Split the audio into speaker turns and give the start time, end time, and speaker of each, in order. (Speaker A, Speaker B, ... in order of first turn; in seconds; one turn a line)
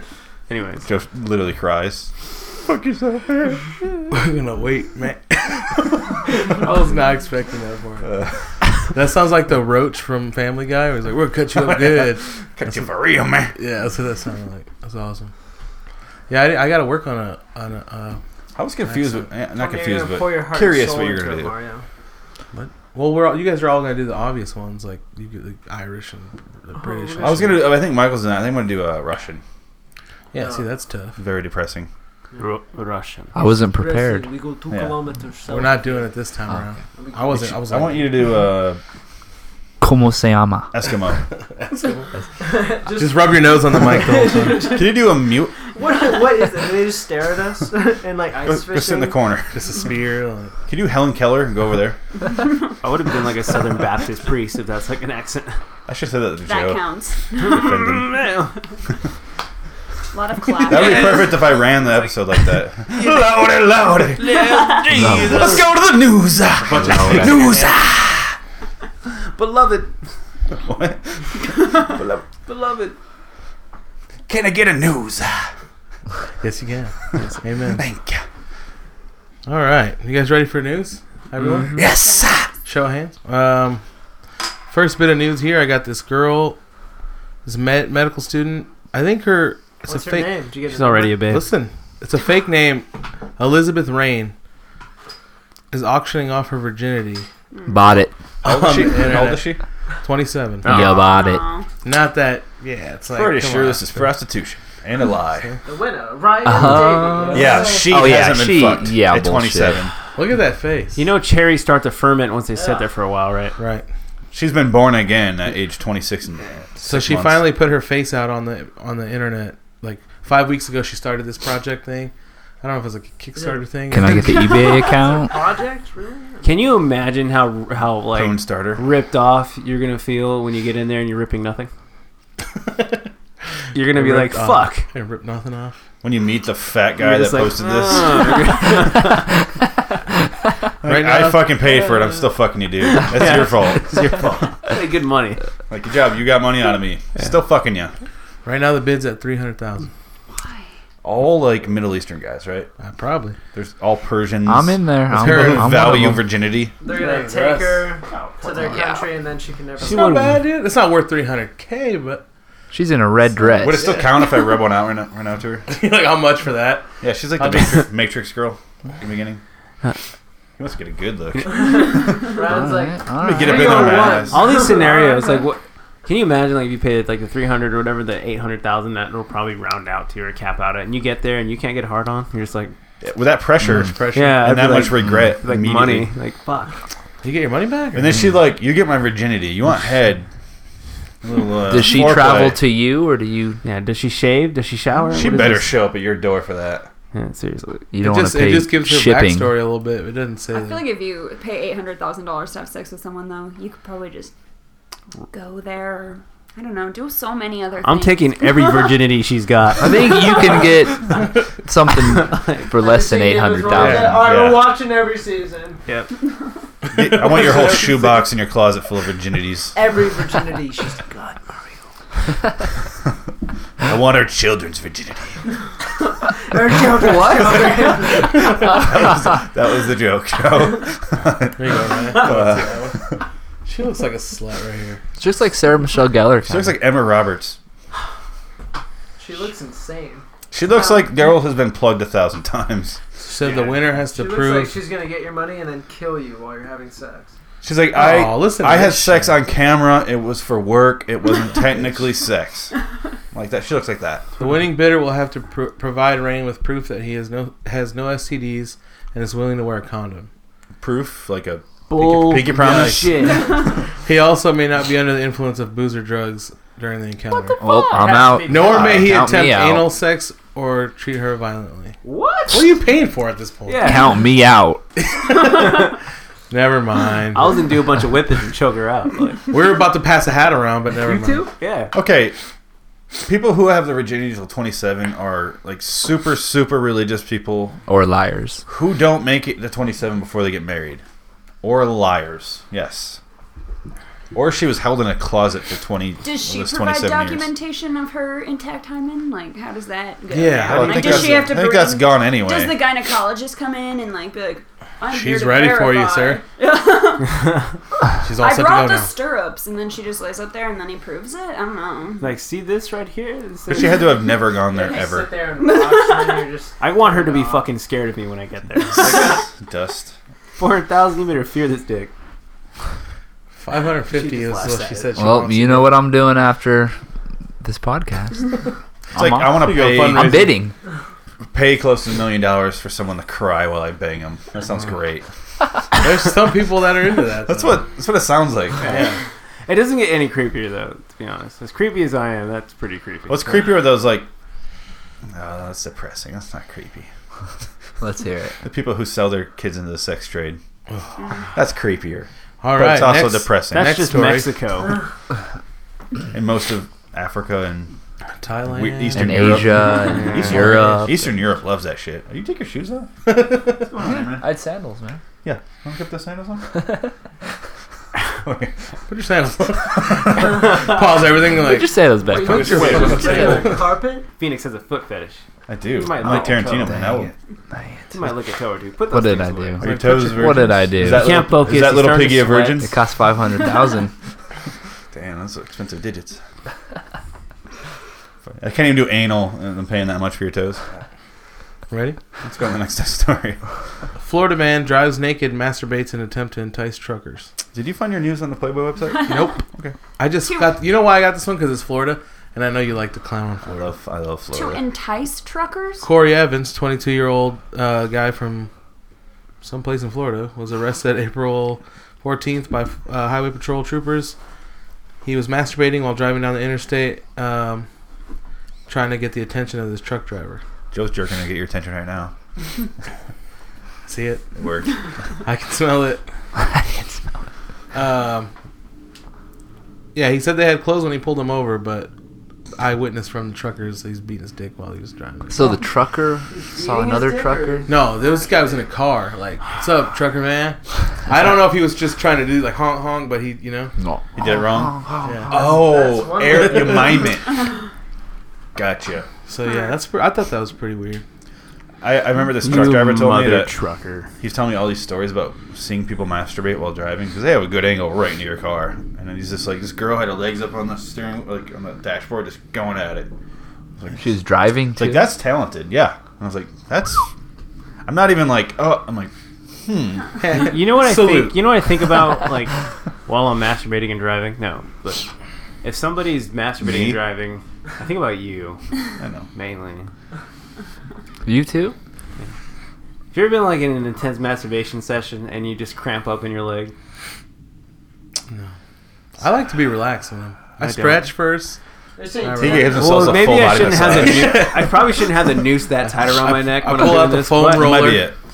Speaker A: 0.5-0.9
Speaker B: 0.8-3.9
Speaker C: 4.1-8.2
Speaker B: 8.1-8.4
Speaker C: 8.9-12.9
Speaker B: 11.6-13.5
Speaker C: 13.5-15.3
Speaker C: 16.3-18.2
Speaker B: 18.6-21.6
Speaker C: 18.9-19.2
Speaker D: 19.5-21.8
Speaker C: 22.5-27.7
Speaker D: 26.8-27.6
Speaker B: 27.2-29.4
Speaker C: 30.3-31.2
Speaker D: 30.3-30.7
Speaker B: 31.2-31.9
Speaker D: 32.3-32.6
Speaker A: 32.4-33.3
Speaker E: 33.3-34.3
Speaker D: 33.7-36.2
Speaker B: 34.7-35.0
Speaker C: 35.5-38.1
Speaker D: 37.0-37.4
Speaker B: 37.3-38.8
Speaker E: 39.8-40.7
Speaker B: 40.7-41.2
Speaker C: 41.6-42.0
Speaker D: 42.4-45.1
Speaker C: 43.0-44.7
Speaker B: 44.5-45.5
Speaker D: 45.7-49.2
Speaker B: 48.5-49.6
Speaker C: 49.5-50.5
Speaker B: 50.7-52.0
Speaker A: 52.8-55.6
Speaker B: 55.9-56.8
Speaker F: 56.5-57.7
Speaker B: 57.4-58.2
Speaker A: 57.4-58.5
Speaker F: 60.1-61.4
Speaker A: 60.5-62.1
Speaker B: 60.7-64.5
Speaker A: 62.9-63.3
Speaker A: 64.2-65.7
Speaker E: 64.9-65.6
Speaker B: 65.1-68.4
Speaker E: 66.8-67.6
Speaker A: 67.1-67.9
Speaker A: 69.2-69.9
Speaker B: 70.5-72.3
Speaker A: 72.5-73.0
Speaker B: 74.3-75.5
Speaker C: 76.4-77.8
Speaker B: 77.7-78.2
Speaker C: 79.5-81.8
Speaker A: 81.4-81.9
Speaker B: 81.8-82.5
Speaker F: 82.0-82.4
Speaker C: 82.7-83.8
Speaker C: 84.7-86.6
Speaker C: 87.5-90.3
Speaker D: 89.8-91.3
Speaker A: 90.6-91.5
Speaker C: 91.3-92.9
Speaker C: 93.4-94.3
Speaker C: 95.7-97.3
Speaker F: 97.5-97.9
Speaker E: 97.7-98.1
Speaker C: 98.4-100.7
Speaker B: 98.4-99.6
Speaker A: 100.6-101.1
Speaker E: 100.6-101.5
Speaker F: 100.7-101.7
Speaker C: 101.8-103.8
Speaker B: 103.1-105.5
Speaker D: 105.6-108.1
Speaker E: 106.4-109.9
Speaker B: 107.3-109.9
Speaker C: 110.2-111.1
Speaker A: 111.0-113.6
Speaker D: 112.5-112.9
Speaker C: 113.6-113.9
Speaker B: 114.3-117.5
Speaker C: 116.8-124.6
Speaker D: 123.3-123.7
Speaker E: 123.9-125.4
Speaker F: 124.2-125.1
Speaker D: 125.0-126.7
Speaker A: 126.4-131.7
Speaker B: 128.1-128.8
Speaker C: 132.7-133.0
Speaker A: 133.7-134.8
Speaker C: 133.9-135.8
Speaker B: 136.0-138.6
Speaker A: 137.0-139.3
Speaker B: 140.8-144.4
Speaker C: 140.8-141.5
Speaker A: 142.9-145.4
Speaker B: 145.7-147.9
Speaker C: 148.4-149.9
Speaker F: 150.3-150.7
Speaker B: 151.0-152.7
Speaker C: 152.8-153.3
Speaker B: 153.5-156.7
Speaker E: 154.4-156.3
Speaker C: 155.1-155.9
Speaker D: 156.8-160.4
Speaker C: 156.8-157.9
Speaker E: 158.7-159.1
Speaker C: 159.8-162.2
Speaker A: 159.9-160.3
Speaker E: 162.7-164.0
Speaker B: 163.6-165.7
Speaker C: 163.7-164.0
Speaker C: 165.7-167.9
Speaker B: 167.0-169.4
Speaker B: 170.6-172.3
Speaker D: 171.5-175.5
Speaker E: 172.4-174.2
Speaker B: 173.2-174.7
Speaker A: 174.3-182.8
Speaker B: 183.0-186.1
Speaker C: 183.6-184.5
Speaker A: 184.1-186.8
Speaker C: 187.2-188.2
Speaker B: 187.9-190.3
Speaker B: 191.2-192.6
Speaker E: 191.7-193.6
Speaker A: 193.6-195.7
Speaker B: 195.2-196.9
Speaker A: 197.1-197.9
Speaker E: 197.9-199.6
Speaker C: 198.0-200.9
Speaker F: 200.5-204.3
Speaker F: 205.3-209.0
Speaker A: 207.8-210.7
Speaker E: 209.8-214.3
Speaker F: 210.1-210.8
Speaker D: 212.7-215.8
Speaker C: 213.8-214.2
Speaker B: 214.1-214.7
Speaker A: 215.9-216.1
Speaker B: 216.9-219.8
Speaker D: 217.2-218.3
Speaker D: 219.7-221.6
Speaker B: 223.8-225.4
Speaker D: 226.4-228.5
Speaker B: 228.0-233.2
Speaker C: 231.6-233.0
Speaker C: 233.7-235.0
Speaker E: 235.2-236.8
Speaker B: 236.4-237.6
Speaker D: 239.2-240.3
Speaker B: 240.5-243.0
Speaker F: 240.7-241.1
Speaker C: 243.2-244.8
Speaker D: 243.4-247.3
Speaker B: 247.6-252.8
Speaker C: 247.9-249.4
Speaker C: 251.7-252.0
Speaker B: 253.3-254.3
Speaker C: 254.4-260.3
Speaker B: 260.8-263.4
Speaker A: 261.9-263.6
Speaker C: 262.5-263.3
Speaker C: 264.0-267.6
Speaker E: 267.6-269.9
Speaker F: 267.6-268.4
Speaker A: 267.6-268.4
Speaker D: 268.0-268.8
Speaker C: 268.5-272.0
Speaker B: 268.6-269.2
Speaker A: 272.0-272.8
Speaker C: 272.5-273.9
Speaker A: 273.7-274.2
Speaker E: 273.8-274.9
Speaker C: 275.0-275.9
Speaker C: 276.5-277.6
Speaker A: 277.3-279.5
Speaker C: 279.5-281.5
Speaker A: 281.1-281.9
Speaker B: 281.9-282.4
Speaker B: 283.2-287.8
Speaker E: 287.9-288.6
Speaker B: 288.7-291.0
Speaker B: 291.6-293.2
Speaker B: 294.3-297.5
Speaker F: 296.2-307.5
Speaker C: 300.3-301.5
Speaker B: 300.6-302.8
Speaker C: 305.1-306.4
Speaker C: 308.2-309.1
Speaker F: 308.4-312.3
Speaker A: 312.2-314.4
Speaker B: 313.7-315.3
Speaker D: 314.6-317.7
Speaker F: 315.6-316.5
Speaker A: 316.8-319.4
Speaker B: 319.0-320.1
Speaker D: 319.0-319.4
Speaker A: 320.6-322.1
Speaker C: 323.6-325.9
Speaker A: 324.1-325.1
Speaker D: 324.5-324.8
Speaker E: 325.1-327.0
Speaker E: 327.6-328.5
Speaker B: 329.1-330.4
Speaker E: 329.1-330.7
Speaker C: 329.5-330.6
Speaker B: 331.5-335.3
Speaker C: 336.0-337.8
Speaker B: 337.4-339.0
Speaker A: 338.8-339.1
Speaker C: 338.8-339.2
Speaker A: 339.6-343.7
Speaker B: 343.3-344.3
Speaker B: 345.3-347.1
Speaker E: 348.0-348.6
Speaker B: 348.6-350.6
Speaker C: 350.9-351.1
Speaker F: 351.2-351.4
Speaker B: 351.5-354.0
Speaker C: 352.6-354.5
Speaker A: 353.7-355.0
Speaker B: 356.3-358.0
Speaker C: 358.4-359.5
Speaker B: 358.6-363.1
Speaker E: 359.1-361.4
Speaker A: 360.0-360.4
Speaker C: 363.2-363.9
Speaker B: 363.8-364.5
Speaker E: 364.0-365.2
Speaker B: 365.4-366.7
Speaker E: 366.8-367.1
Speaker B: 368.4-368.8
Speaker C: 369.1-373.8
Speaker B: 370.1-370.5
Speaker E: 371.5-373.2
Speaker D: 372.2-374.3
Speaker B: 372.4-373.7
Speaker A: 374.4-377.1
Speaker B: 375.7-377.3
Speaker E: 376.3-378.1
Speaker A: 378.1-379.9
Speaker E: 379.1-381.4
Speaker B: 379.8-383.0
Speaker C: 379.8-380.7
Speaker A: 381.0-382.9
Speaker E: 382.8-384.1
Speaker B: 385.1-386.4
Speaker B: 388.5-390.8
Speaker C: 391.9-392.2
Speaker B: 392.4-393.6
Speaker C: 394.2-397.5
Speaker B: 397.7-399.9
Speaker C: 399.3-399.6
Speaker C: 400.2-403.9
Speaker F: 400.4-400.8
Speaker B: 403.6-404.8
Speaker F: 404.5-406.1
Speaker C: 406.0-408.7
Speaker C: 409.6-414.4
Speaker C: 415.2-417.9
Speaker C: 418.9-420.6
Speaker B: 420.9-422.3
Speaker C: 424.1-424.4
Speaker B: 424.6-425.0
Speaker C: 425.4-426.2
Speaker E: 426.6-427.3
Speaker C: 427.9-428.5
Speaker C: 430.1-432.1
Speaker C: 432.8-435.7
Speaker E: 435.5-437.9
Speaker D: 436.5-438.9
Speaker C: 437.9-443.9
Speaker E: 444.0-445.8
Speaker B: 444.4-445.0
Speaker C: 445.2-445.8
Speaker B: 445.5-447.6
Speaker D: 445.5-447.3
Speaker C: 446.5-447.1
Speaker B: 448.8-449.3
Speaker C: 449.5-451.2
Speaker F: 449.6-449.9
Speaker B: 452.0-453.7
Speaker A: 452.6-454.3
Speaker B: 454.4-463.3
Speaker B: 464.0-464.3
Speaker E: 464.1-465.3
Speaker B: 464.9-467.3
Speaker B: 468.1-469.3
Speaker B: 469.9-470.5
Speaker C: 470.4-471.7
Speaker A: 470.6-475.3
Speaker A: 475.8-478.8
Speaker B: 476.8-477.2
Speaker B: 479.2-479.5
Speaker A: 479.5-480.1
Speaker E: 481.4-481.9
Speaker A: 483.3-486.9
Speaker C: 489.4-491.8
Speaker A: 490.8-491.3
Speaker D: 492.2-493.3
Speaker C: 492.4-493.0
Speaker B: 492.6-494.9
Speaker A: 492.9-498.2
Speaker C: 496.0-498.3
Speaker B: 497.6-498.4